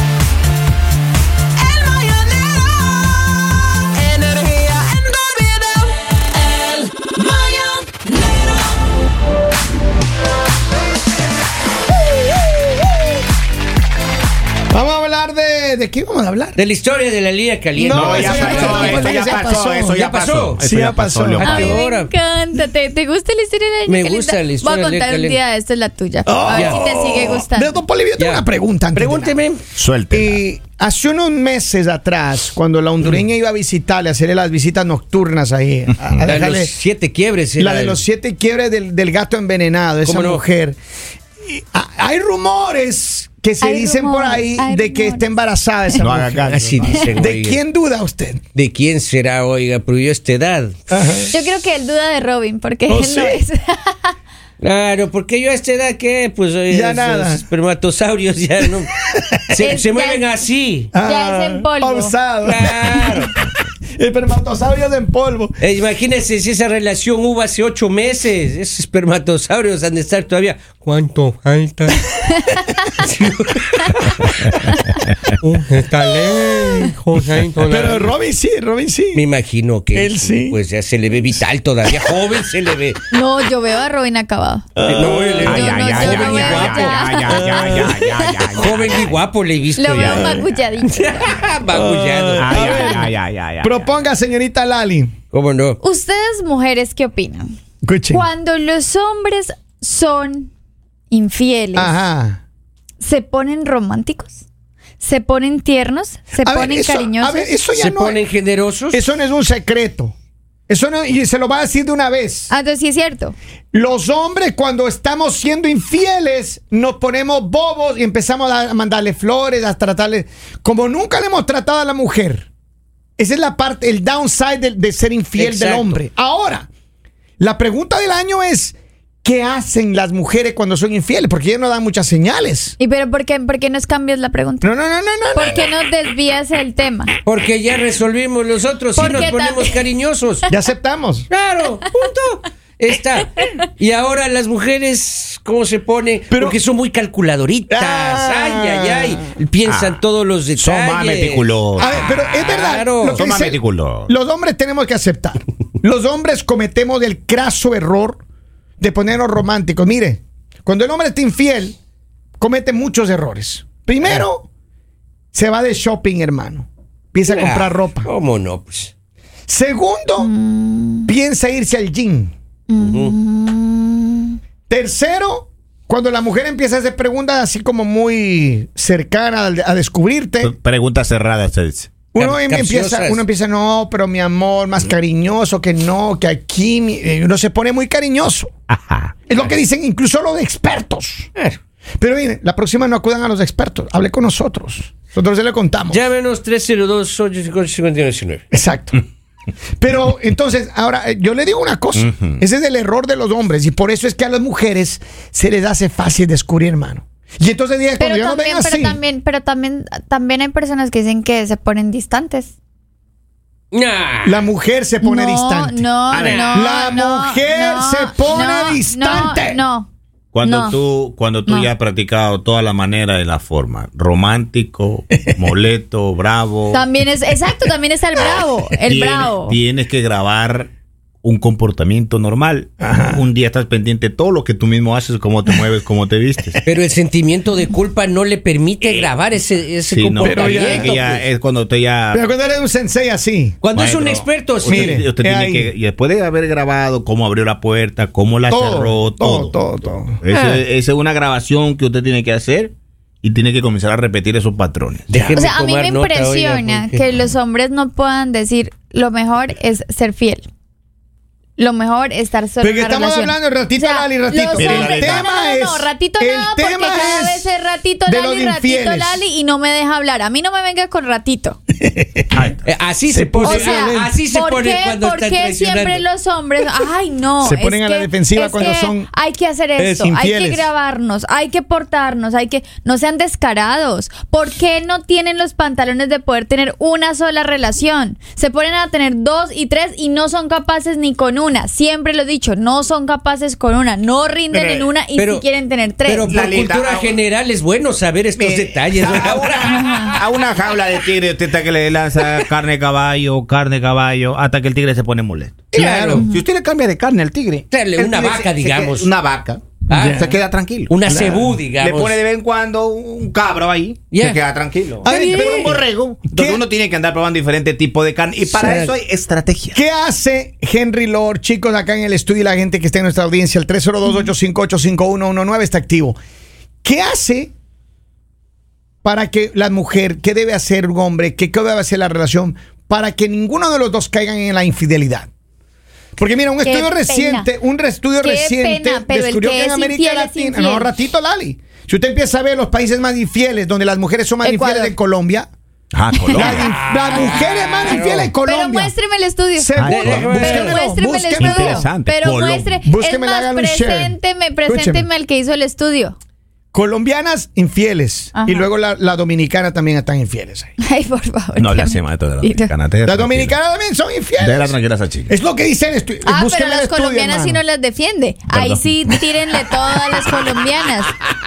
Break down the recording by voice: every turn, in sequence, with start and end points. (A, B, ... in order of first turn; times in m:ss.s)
0:01.7-0:02.9 A
0:04.0-0:05.9 A
0:07.2-0:07.7 A
0:14.7-0:16.6 B
0:16.6-0:19.1 A
0:17.8-0:20.0 B
0:17.9-0:21.8 C
0:20.0-0:20.6 A
0:20.6-0:21.7 B
0:21.4-0:22.1 A
0:21.4-0:27.8 D
0:23.9-0:25.4 A
0:26.2-0:29.4 B
0:26.5-0:26.9 A
0:28.2-0:29.6 A
0:29.7-0:30.4 C
0:30.1-0:36.7 B
0:36.2-0:38.0 A
0:37.6-0:40.8 B
0:40.0-0:40.4 A
0:41.4-0:48.4 B
0:43.6-0:45.3 D
0:46.0-0:47.0 C
0:46.4-0:47.6 A
0:48.5-0:50.9 A
0:50.9-0:51.3 B
0:51.3-0:54.1 D
0:52.9-0:53.4 B
0:54.6-0:59.0 A
0:56.7-0:57.4 B
0:59.0-0:59.6 B
0:59.5-1:00.9 A
0:59.6-1:00.3 D
1:00.9-1:05.6 B
1:01.0-1:02.1 D
1:02.4-1:03.3 A
1:05.6-1:12.0 A
1:12.9-1:14.3 A
1:15.4-1:18.1 A
1:16.3-1:16.8 B
1:17.6-1:19.2 B
1:19.1-1:23.0 A
1:19.9-1:20.6 B
1:23.1-1:24.6 D
1:24.8-1:26.5 B
1:24.9-1:33.0 A
1:25.4-1:29.2 C
1:25.4-1:27.7 D
1:29.8-1:31.4 D
1:29.9-1:30.8 C
1:31.7-1:33.1 B
1:32.4-1:33.9 C
1:32.6-1:33.1 D
1:33.6-1:35.1 B
1:35.3-1:35.8 A
1:35.8-1:37.5 D
1:37.8-1:38.3 B
1:38.1-1:40.5 D
1:41.1-1:42.0 D
1:41.7-1:42.4 B
1:43.0-1:44.4 D
1:45.0-1:47.5 D
1:46.3-1:48.2 B
1:47.7-1:49.0 A
1:48.9-1:50.1 B
1:50.7-1:52.5 B
1:52.5-1:53.3 D
1:53.7-2:02.5 B
2:03.2-2:06.7 B
2:05.4-2:06.0 A
2:07.4-2:12.8 B
2:12.8-2:14.7 D
2:14.6-2:15.7 B
2:15.3-2:17.1 D
2:17.2-2:20.5 A
2:19.0-2:19.8 D
2:19.0-2:19.3 B
2:20.5-2:21.3 B
2:21.3-2:33.2 A
2:26.3-2:26.6 B
2:27.7-2:29.3 B
2:29.6-2:30.0 C
2:30.6-2:32.0 C
2:31.8-2:38.2 B
2:33.0-2:34.1 C
2:38.8-2:41.8 B
2:42.4-2:44.5 B
2:45.3-2:48.1 B
2:47.2-2:48.9 A
2:49.5-2:50.3 B
2:50.2-2:51.1 D
2:51.0-2:52.3 B
2:52.7-2:54.4 D
2:52.8-2:53.2 A
2:54.7-3:00.5 B
3:00.4-3:01.9 C
3:02.1-3:08.5 B
3:02.2-3:03.2 A
3:08.7-3:09.2 C
3:09.3-3:11.3 B
3:12.0-3:16.0 B
3:15.9-3:18.4 A
3:18.5-3:19.0 B
3:19.8-3:29.0 B
3:22.0-3:22.4 C
3:28.0-3:32.5 D
3:33.7-3:34.5 A
3:34.2-3:35.9 B
3:35.0-3:39.9 D
3:36.1-3:36.5 C
3:36.2-3:36.6 A
3:36.5-3:39.6 B
3:40.3-3:46.8 C
3:40.4-3:40.8 D
3:46.7-3:49.6 D
3:48.8-3:50.7 C
3:51.2-3:56.6 C
3:52.8-3:53.2 B
3:56.6-4:01.2 A
3:58.8-3:59.1 C
3:59.9-4:02.2 C
4:00.2-4:00.9 B
4:02.1-4:03.6 B
4:03.6-4:05.0 A
4:03.7-4:15.1 C
4:04.7-4:05.7 B
4:08.5-4:10.2 B
4:10.3-4:10.6 A
4:15.1-4:17.0 A
4:15.1-4:15.4 B
4:15.4-4:20.4 D
4:21.6-4:31.6 D
4:22.6-4:27.5 B
4:24.6-4:25.3 C
4:28.0-4:29.2 B
4:31.8-4:32.2 B
4:32.3-4:32.7 C
4:32.6-4:36.0 A
4:33.1-4:34.1 B
4:33.4-4:56.3 D
4:37.4-4:39.1 B
4:39.8-4:40.7 B
4:54.5-4:54.9 C
4:55.2-4:55.4 A
4:56.0-5:00.2 A
4:56.3-4:57.2 C
4:58.4-5:10.9 C
4:59.6-5:00.1 D
5:05.7-5:06.3 B
5:05.7-5:06.2 A
5:07.7-5:09.1 A
5:09.9-5:10.3 A
5:09.9-5:10.3 B
5:10.9-5:12.2 A
5:11.1-5:11.6 B
5:11.8-5:19.8 C
5:14.1-5:14.4 A
5:15.0-5:16.6 B
5:15.0-5:15.6 A
5:18.5-5:19.0 A
5:19.7-5:26.2 B
5:26.8-5:27.5 B
5:29.0-5:35.3 B
5:36.2-5:45.5 B
5:36.6-5:37.5 D
5:38.2-5:40.9 D
5:44.4-5:44.9 D
5:45.9-5:46.7 C
5:46.3-5:48.9 B
5:46.4-5:48.3 A
5:48.1-5:56.2 D
5:49.6-5:51.9 B
5:49.8-5:50.5 C
5:49.9-5:50.8 A
5:51.4-5:52.8 C
5:52.8-5:55.1 B
5:56.7-6:00.7 B
5:58.3-5:58.7 D
6:00.8-6:02.7 D
6:01.6-6:03.6 C
6:03.0-6:04.7 B
6:04.4-6:05.3 C
6:05.3-6:07.6 B
6:06.2-6:11.2 D
6:08.5-6:09.2 C